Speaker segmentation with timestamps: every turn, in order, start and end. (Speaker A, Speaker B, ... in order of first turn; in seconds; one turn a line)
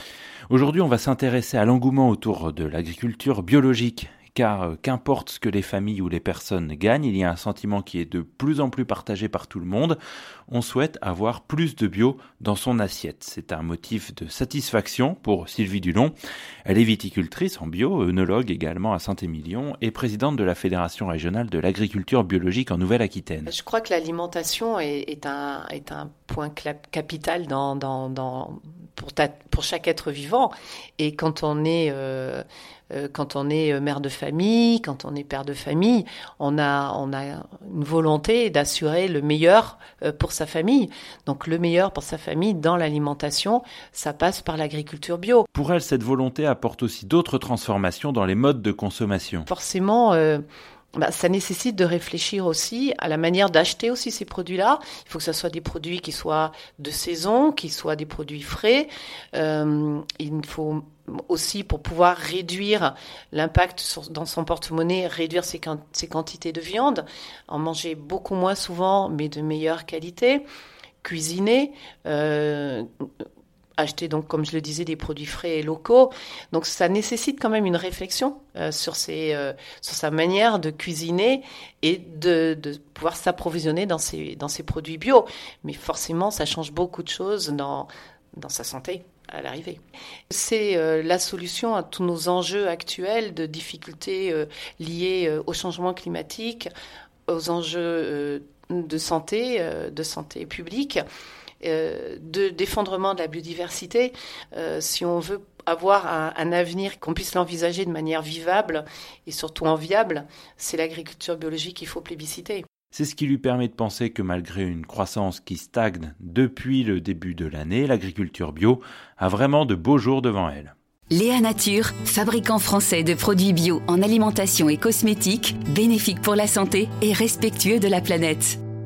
Speaker A: 0.5-23.5
Speaker B: 23.5-45.5
Speaker A: 45.5-49.5
Speaker B: 49.5-50.4
Speaker B: 51.0-70.4
Speaker B: 71.0-72.9
Speaker B: 73.8-96.7
Speaker B: 97.3-101.0
Speaker B: 101.6-112.6
Speaker A: 112.9-120.7
Speaker C: 121.1-128.6